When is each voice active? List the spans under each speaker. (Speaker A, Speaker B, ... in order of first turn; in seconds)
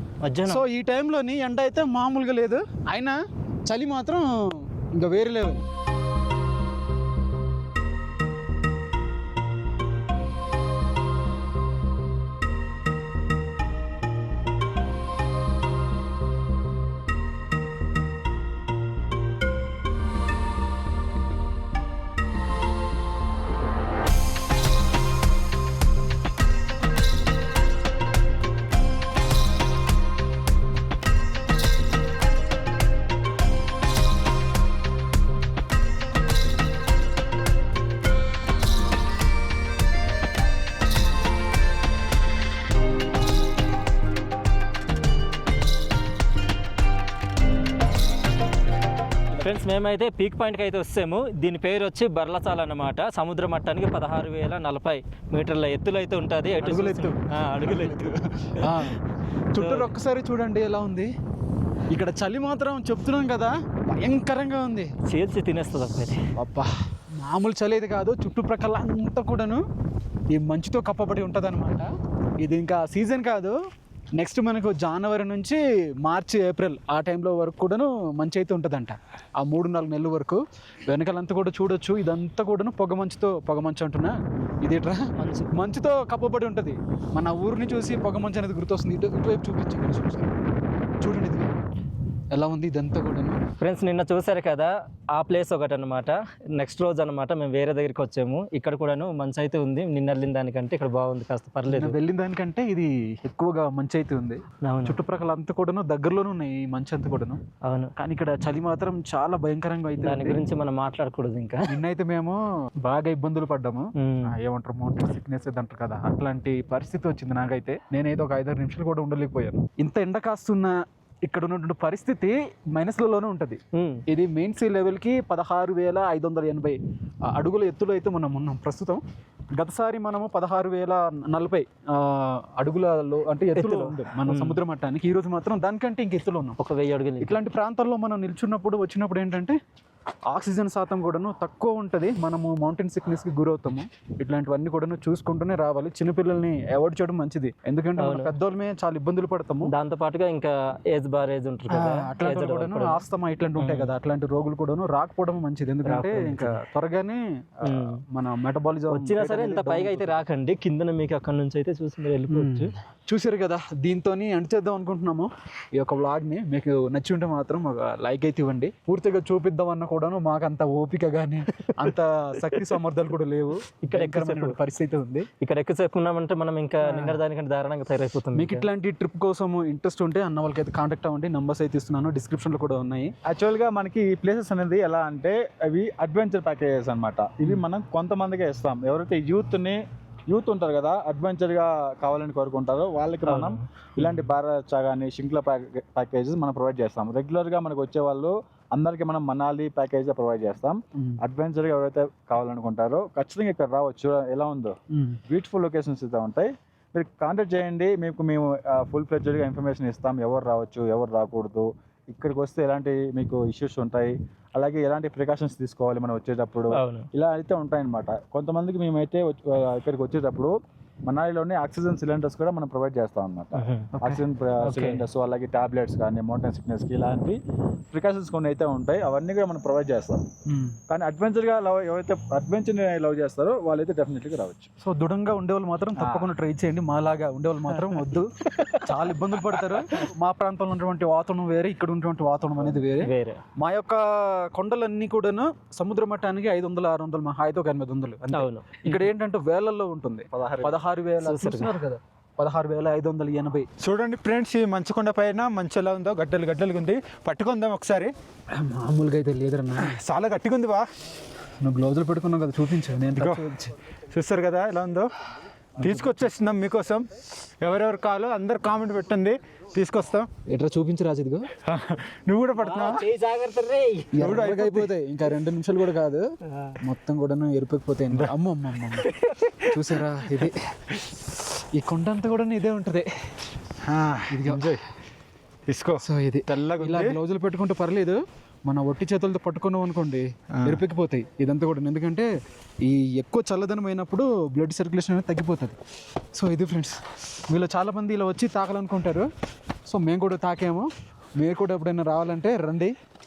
Speaker A: 0.2-0.6, 49.4-58.8, 59.6-59.9, 65.1-66.2, 85.2-85.5, 93.6-102.0, 104.6-105.0, 107.6-107.9, 110.0-111.6, 114.0-114.3, 123.7-124.0, 133.6-134.6, 136.6-137.4, 148.0-148.3, 149.7-153.0, 153.6-153.9, 155.8-156.6, 157.7-158.0, 158.9-162.7, 173.8-174.5, 175.4-178.6, 193.3-193.6, 216.8-217.1, 223.6-223.9, 224.7-225.0, 243.0-243.4, 248.3-249.1, 251.2-251.7, 272.6-274.1
Speaker B: 0.5-5.6, 56.6-59.0, 59.5-61.1, 61.9-64.9, 66.4-69.6, 70.3-71.9, 72.4-73.5, 74.2-90.3, 91.0-91.5, 92.3-93.4, 101.7-107.4, 108.0-110.4, 111.7-120.7, 121.3-126.8, 127.3-129.0, 129.6-136.6, 137.2-139.6, 140.3-149.7, 151.7-160.2, 162.3-175.3, 176.9-177.2, 178.4-183.1, 230.5-230.8, 234.8-238.3, 238.8-253.7, 258.5-259.9, 261.6-263.7, 265.8-266.2, 270.5-271.5, 274.1-276.2, 276.8-279.1, 279.6-280.6, 281.8-283.1, 284.3-284.8, 286.0-292.3, 292.8-295.8, 296.4-299.3, 299.9-302.9
Speaker C: 183.3-189.8, 190.3-193.6, 194.1-204.7, 205.3-220.5, 221.1-227.4, 227.9-230.2, 231.0-234.7, 250.3-250.8
Speaker D: 253.8-258.1, 259.8-260.9, 263.1-263.4, 264.1-265.1, 265.8-267.1, 267.6-270.3, 271.7-273.0, 274.2-274.9, 283.9-284.8, 285.7-287.2